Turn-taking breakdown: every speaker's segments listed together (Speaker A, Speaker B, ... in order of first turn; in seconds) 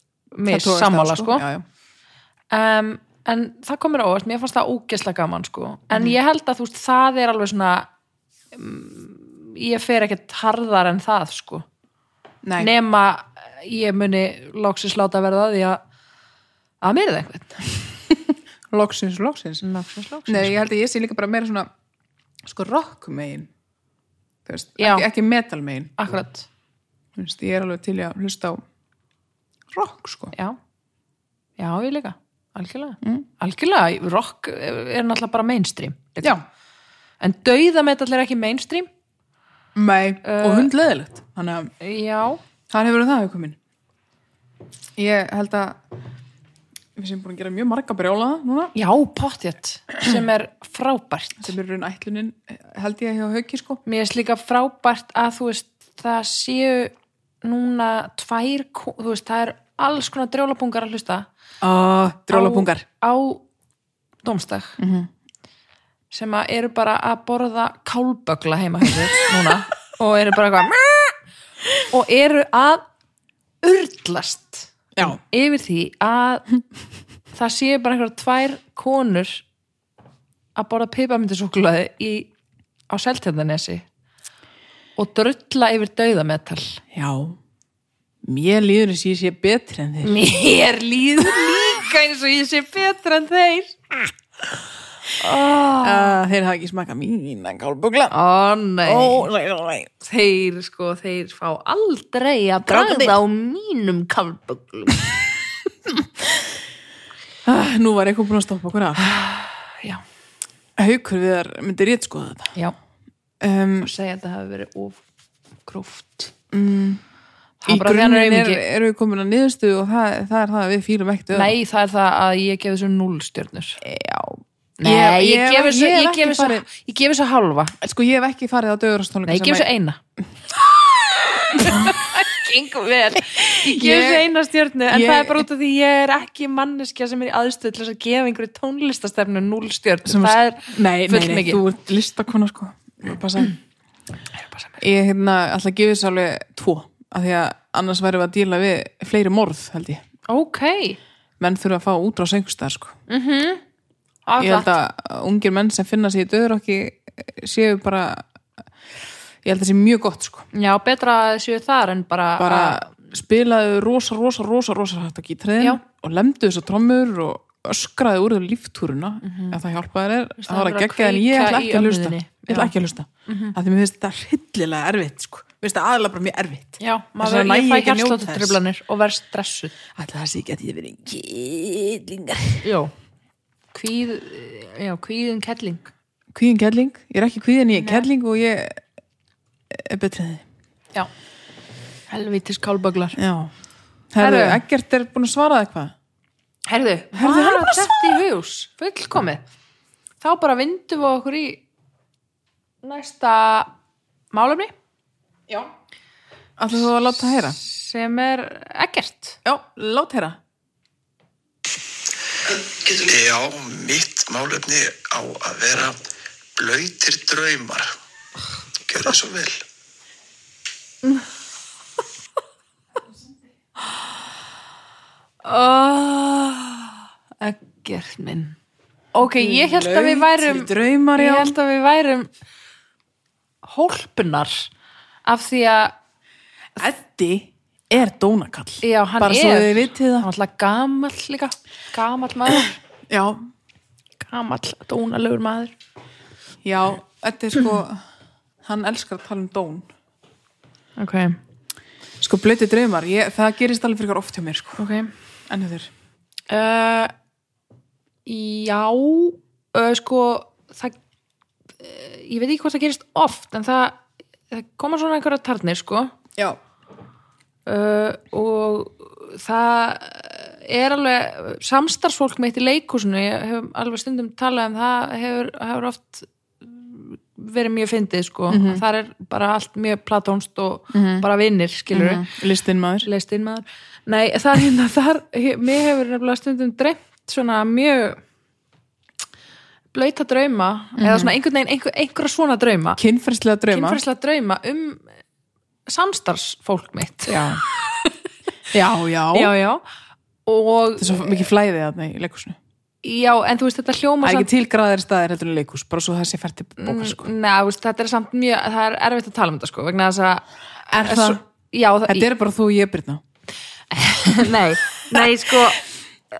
Speaker A: 0.3-1.4, 2.5-7.9, 8.5-11.7, 12.6-15.8, 16.8-17.6, 19.6-20.5, 24.8-25.1, 26.0-26.5, 31.6-36.4, 37.2-38.9, 40.2-40.7, 41.8-42.4, 48.7-51.5, 53.9-61.3, 62.3-63.4, 64.2-64.8, 66.1-71.1, 71.9-72.8, 73.6-76.5, 77.3-79.4, 80.5-82.3, 82.9-83.8, 85.0-86.8, 90.0-93.8, 95.2-96.2, 98.1-99.3, 100.0-105.0, 109.0-110.0, 113.8-115.0, 115.6-116.3, 117.6-118.6, 121.3-123.8, 124.8-127.8, 129.2-130.0, 131.3-141.6, 150.3-151.0, 153.1-153.6, 154.2-154.7, 160.5-162.8, 169.2-169.6, 170.4-172.7, 173.2-173.5, 176.8-179.8, 182.6-182.9, 183.7-185.9, 187.8-188.1, 192.1-193.2, 194.2-194.6, 196.7-199.4, 200.2-201.6, 202.8-203.7, 204.3-204.7, 207.6-209.4, 225.4-228.6, 229.1-232.3, 233.6-234.7, 235.2-235.9, 238.8-242.8, 244.2-245.7, 251.0-251.4, 254.8-255.1, 256.5-257.1, 258.2-260.9, 261.8-266.1, 267.6-282.3, 283.0-288.2, 289.9-293.0, 293.7-295.1, 295.9-298.1, 299.3-299.8, 300.4-301.4, 303.0-304.5, 306.8-312.2, 313.9-315.8
Speaker B: 0.5-1.6, 12.4-12.7, 18.7-19.6, 20.3-21.7, 22.4-23.5, 24.4-25.9, 27.1-28.6, 29.7-30.3, 39.7-41.7, 42.7-43.6, 45.0-45.8, 47.0-48.7, 51.4-53.8, 61.6-62.8, 64.8-65.1, 86.9-87.4, 88.2-90.2, 95.8-98.1, 98.8-99.9, 102.6-103.1, 105.9-106.5, 107.4-109.1, 110.8-112.5, 113.4-113.9, 116.5-117.0, 117.7-121.5, 123.8-126.7, 127.8-129.7, 131.5-132.0, 133.3-134.3, 134.9-135.4, 140.0-143.6, 144.8-150.0, 151.4-152.9, 154.4-158.2, 159.4-160.5, 162.4-178.6, 179.9-182.6, 186.3-188.8, 189.7-190.4, 193.2-193.5, 194.1-195.9, 197.1-198.2, 206.6-207.6, 209.4-210.4, 229.2-231.6, 236.8-240.3, 243.1-243.5, 246.6-248.0, 248.6-249.9, 252.2-254.8, 255.5-255.9, 278.5-278.8, 280.9-281.2, 281.9-283.1, 291.0-291.3, 293.0-294.0, 297.3-297.6, 298.7-299.5, 301.0-302.6, 304.2-307.3, 310.9-311.4, 312.1-313.2, 315.1-315.6
Speaker C: 212.5-216.0, 216.6-217.9, 218.9-219.6